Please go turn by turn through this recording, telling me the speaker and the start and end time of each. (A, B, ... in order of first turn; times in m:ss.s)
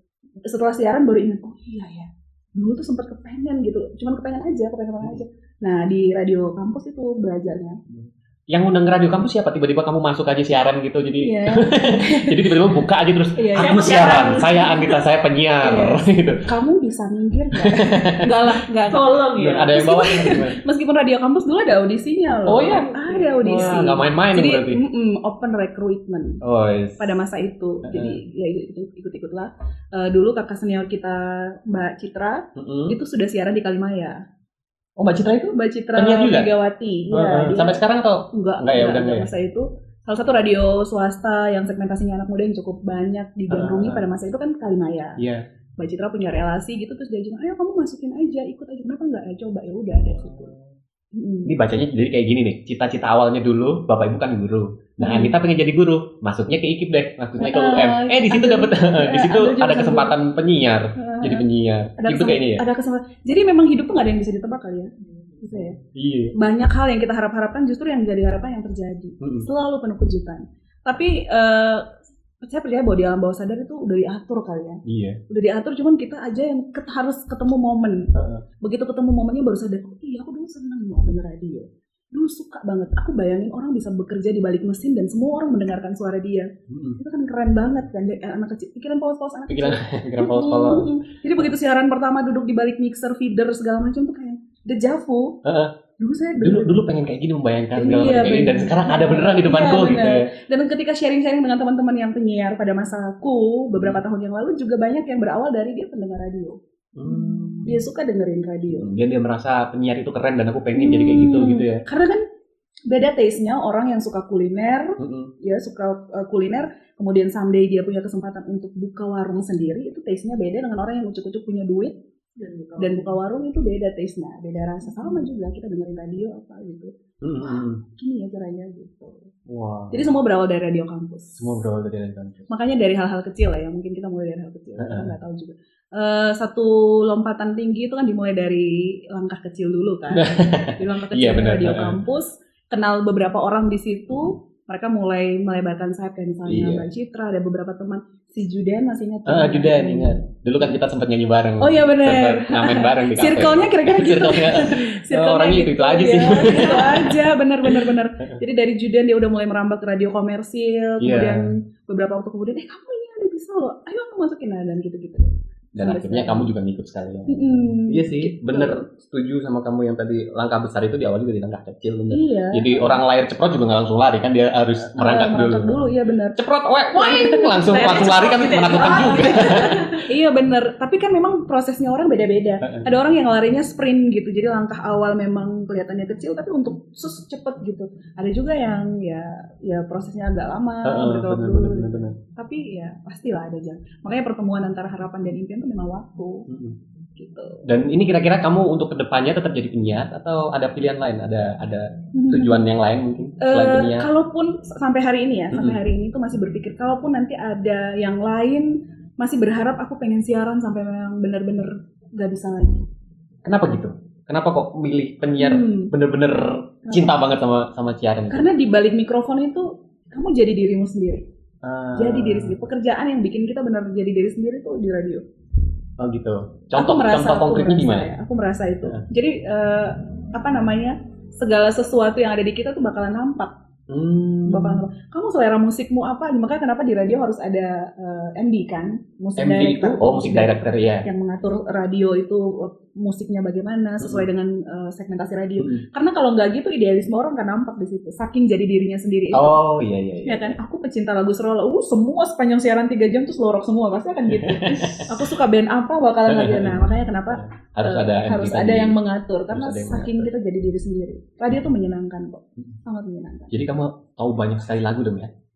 0:00.4-0:07.8 A
0:07.9-0:16.4 B
0:11.2-0:12.7 A
0:13.4-0:14.8 A
0:13.6-0:14.9 C
0:15.6-0:19.1 A
0:17.6-0:18.3 B
0:18.9-0:19.8 C
0:19.4-0:20.6 B
0:19.7-0:26.4 A
0:22.4-0:22.9 B
0:22.6-0:24.0 C
0:23.4-0:24.8 B
0:26.4-0:27.1 B
0:27.0-0:34.2 A
0:27.8-0:28.2 B
0:32.6-0:32.9 B
0:35.0-0:36.5 B
0:35.5-0:37.8 A
0:37.1-0:39.3 B
0:38.3-0:45.2 A
0:43.5-0:44.0 B
0:45.2-0:45.4 B
0:45.8-0:50.5 A
0:50.1-0:50.6 B
0:51.1-0:51.5 A
0:51.4-1:02.6 B
0:55.0-0:55.3 A
0:57.4-1:00.1 A
1:01.0-1:01.4 A
1:02.0-1:04.9 A
1:05.0-1:05.4 C
1:05.4-1:05.8 A
1:05.5-1:06.3 B
1:06.4-1:11.8 A
1:09.2-1:09.5 B
1:12.4-1:18.1 A
1:14.8-1:15.2 B
1:18.1-1:18.4 B
1:18.6-1:35.4 A
1:26.7-1:27.0 B
1:29.5-1:30.9 B
1:35.4-1:35.7 B
1:36.0-1:36.8 A
1:36.4-1:40.3 B
1:37.8-1:48.9 A
1:47.0-1:47.8 B
1:48.7-1:51.8 B
1:50.7-1:52.2 A
1:52.9-2:01.9 A
1:55.0-1:55.3 B
2:02.4-2:03.1 C
2:02.8-2:09.3 A
2:07.2-2:07.8 B
2:09.5-2:10.1 B
2:09.9-2:11.6 A
2:11.4-2:12.5 B
2:12.5-2:30.3 A
2:14.8-2:15.1 B
2:20.1-2:22.0 B
2:26.4-2:26.9 B
2:29.2-2:38.4 B
2:31.6-2:46.5 A
2:41.0-2:41.5 B
2:45.8-2:59.9 B
2:47.3-2:48.8 A
2:52.1-2:52.9 A
2:55.0-2:56.4 A
2:56.9-2:57.6 A
2:57.2-3:00.0 C
2:58.7-3:16.5 A
3:02.6-3:02.9 B
3:10.8-3:12.2 B
3:16.5-3:16.8 B
3:17.2-3:17.6 A
3:17.6-3:24.1 B
3:22.1-3:22.6 A
3:23.4-3:32.8 A
3:25.5-3:25.8 B
3:33.4-3:38.5 B
3:35.4-3:35.9 A
3:36.9-3:37.2 A
3:38.3-3:41.2 A
3:41.6-3:42.6 B
3:42.0-3:45.2 A
3:46.0-3:48.1 B
3:46.7-3:53.5 A
3:53.9-3:54.8 B
3:54.4-4:09.5 A
3:59.4-4:01.0 B
4:04.0-4:04.2 B
4:05.6-4:05.8 B
4:09.3-4:10.6 B
4:10.2-4:23.5 A
4:14.3-4:15.2 B
4:16.3-4:19.0 B
4:19.5-4:20.3 B
4:23.5-4:25.3 B